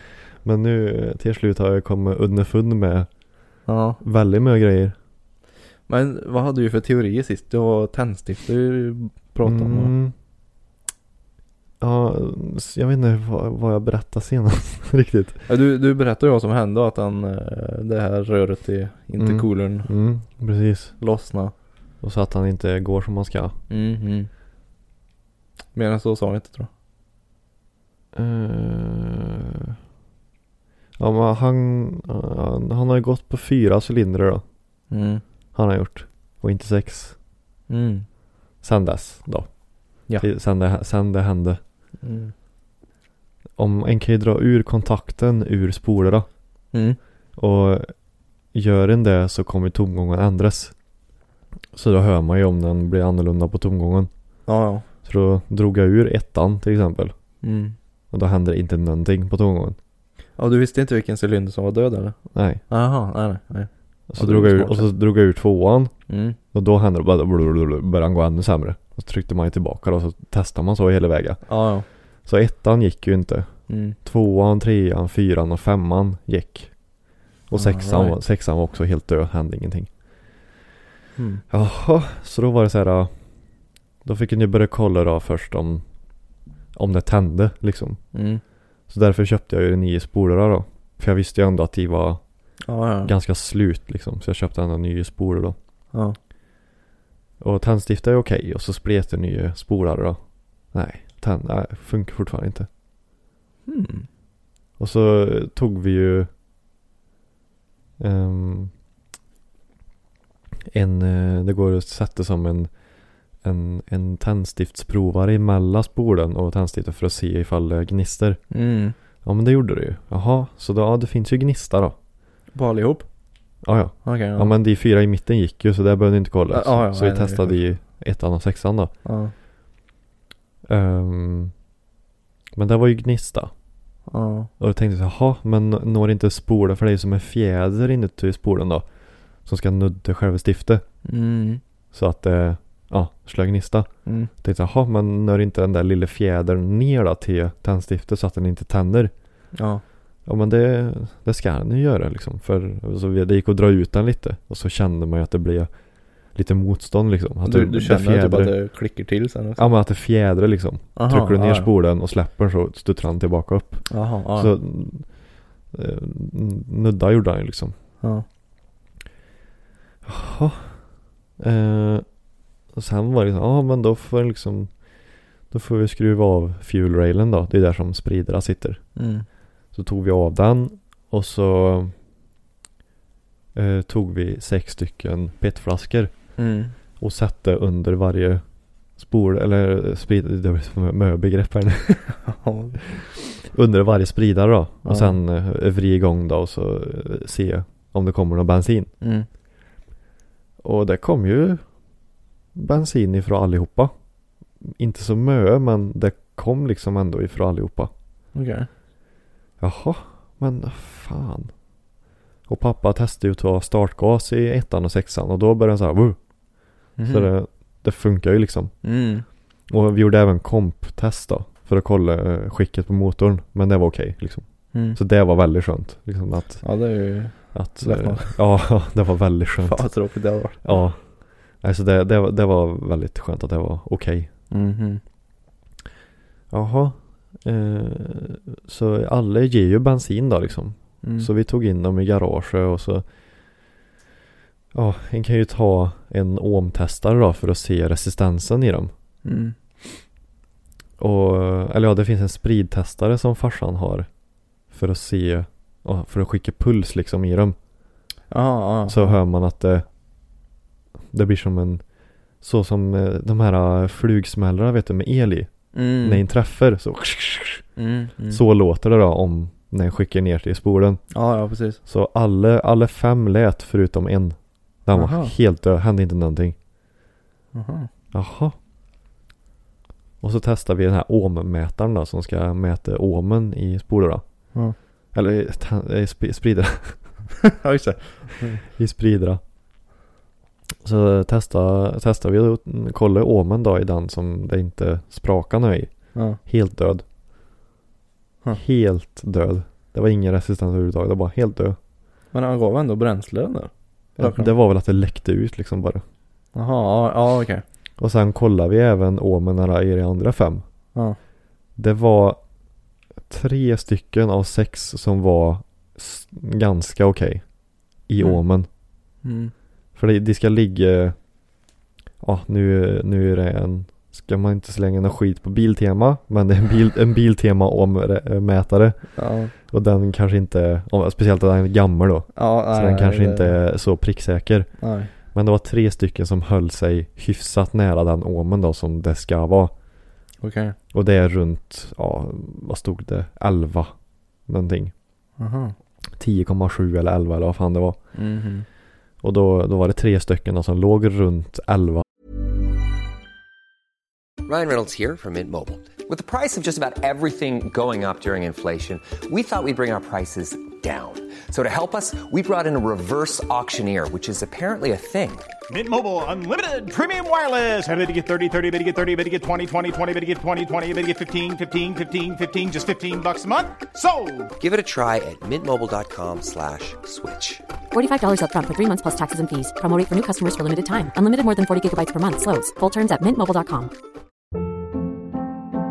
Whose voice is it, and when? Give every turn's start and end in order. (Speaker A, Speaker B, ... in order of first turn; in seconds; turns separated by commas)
Speaker A: 0.4-3.1, Speaker B: 3.7-4.0, Speaker A: 4.0-4.9, Speaker B: 5.9-9.9, Speaker A: 9.4-10.1, Speaker A: 11.8-15.4, Speaker B: 15.5-19.9, Speaker A: 19.2-20.9, Speaker B: 21.0-21.5, Speaker A: 22.0-23.6, Speaker B: 23.7-24.3, Speaker B: 25.7-26.7, Speaker A: 28.1-29.7, Speaker A: 31.0-34.4, Speaker B: 34.9-35.2, Speaker A: 35.5-37.1, Speaker B: 37.7-38.0, Speaker A: 38.6-41.6, Speaker B: 42.0-42.3, Speaker A: 43.6-46.3, Speaker B: 46.7-47.0, Speaker A: 47.4-47.9, Speaker A: 48.5-50.7, Speaker A: 51.7-54.1, Speaker B: 54.5-54.9, Speaker A: 55.0-57.1, Speaker B: 57.4-57.8, Speaker A: 58.1-59.8, Speaker B: 60.4-62.2, Speaker A: 62.3-62.6, Speaker B: 62.7-64.9, Speaker A: 64.1-65.9, Speaker B: 66.1-66.4, Speaker A: 66.5-71.5, Speaker B: 71.5-71.8, Speaker A: 72.2-76.7, Speaker B: 73.7-74.0, Speaker A: 77.5-79.9, Speaker B: 77.5-78.2, Speaker B: 81.2-81.4, Speaker A: 81.5-83.1, Speaker A: 84.0-85.8, Speaker A: 86.7-88.0, Speaker B: 88.1-88.4, Speaker A: 88.9-92.2, Speaker B: 92.7-93.1, Speaker A: 93.0-95.5, Speaker A: 97.4-100.2, Speaker A: 100.7-102.7, Speaker B: 103.7-104.1, Speaker A: 104.8-106.3, Speaker A: 108.0-108.7, Speaker A: 110.7-112.7, Speaker A: 113.4-118.4, Speaker B: 118.5-118.9, Speaker A: 119.2-121.9, Speaker B: 122.5-123.0, Speaker A: 123.6-128.9, Speaker B: 124.0-124.5, Speaker B: 126.5-127.6, Speaker B: 129.0-129.3, Speaker A: 130.7-131.5, Speaker A: 132.5-133.5, Speaker B: 134.1-134.5, Speaker A: 134.6-138.8, Speaker A: 139.4-140.8, Speaker B: 141.0-141.6, Speaker A: 141.9-143.9, Speaker B: 144.1-144.3, Speaker A: 144.4-149.1, Speaker B: 149.5-149.8, Speaker A: 150.2-155.7, Speaker A: 156.3-158.5, Speaker B: 157.4-159.7, Speaker A: 159.6-165.1, Speaker B: 160.9-161.7, Speaker B: 163.9-164.5, Speaker A: 165.7-167.7, Speaker A: 170.1-170.8, Speaker A: 171.4-172.0, Speaker A: 172.7-174.7, Speaker A: 175.5-178.8, Speaker B: 178.9-179.2, Speaker A: 179.7-181.9, Speaker A: 183.5-186.1, Speaker B: 186.4-186.7, Speaker A: 187.0-188.4, Speaker A: 189.0-192.1, Speaker B: 192.2-192.8, Speaker A: 193.3-198.9, Speaker B: 194.8-195.2, Speaker B: 199.0-199.3, Speaker A: 200.6-201.6, Speaker A: 202.5-203.9, Speaker A: 204.6-207.9, Speaker B: 208.3-208.7, Speaker A: 209.6-211.5, Speaker A: 212.5-216.2, Speaker B: 217.0-217.3, Speaker A: 217.0-218.7, Speaker B: 218.8-219.2, Speaker A: 219.7-226.6, Speaker B: 224.7-225.0, Speaker B: 226.6-228.4, Speaker A: 227.5-229.9, Speaker B: 229.6-230.8, Speaker A: 230.6-231.0, Speaker A: 231.6-234.3, Speaker B: 234.5-235.0, Speaker A: 236.5-243.0, Speaker B: 241.0-241.3, Speaker A: 244.7-248.9, Speaker B: 249.2-249.5, Speaker A: 251.0-254.1, Speaker A: 254.7-257.6, Speaker B: 258.3-259.2, Speaker A: 258.9-259.8, Speaker A: 261.1-261.8, Speaker A: 262.4-267.6, Speaker B: 265.7-266.2, Speaker B: 267.8-268.4, Speaker A: 268.3-271.0, Speaker B: 271.1-271.8, Speaker A: 271.9-276.6, Speaker B: 274.9-275.3, Speaker B: 277.5-277.9, Speaker A: 278.1-278.6, Speaker A: 280.2-284.2, Speaker A: 285.1-287.0, Speaker B: 287.4-288.6, Speaker A: 288.8-289.4, Speaker A: 290.8-297.0, Speaker B: 296.1-296.4, Speaker A: 298.5-301.8, Speaker B: 302.3-304.5, Speaker A: 304.2-306.0, Speaker B: 306.5-307.6, Speaker A: 308.0-310.6, Speaker A: 311.8-312.4, Speaker A: 313.2-317.4, Speaker A: 318.1-318.7, Speaker B: 319.2-319.5, Speaker A: 319.9-321.1, Speaker A: 322.2-334.7, Speaker B: 329.2-329.5, Speaker B: 332.3-333.6, Speaker B: 334.8-335.1, Speaker A: 335.2-339.7, Speaker B: 340.4-340.8, Speaker A: 340.9-343.9, Speaker A: 344.4-344.9, Speaker B: 345.4-345.7, Speaker A: 346.2-348.0, Speaker B: 348.1-348.6, Speaker A: 349.2-352.0, Speaker C: 354.4-365.5, Speaker D: 365.7-374.5, Speaker C: 374.6-377.6, Speaker E: 377.9-383.9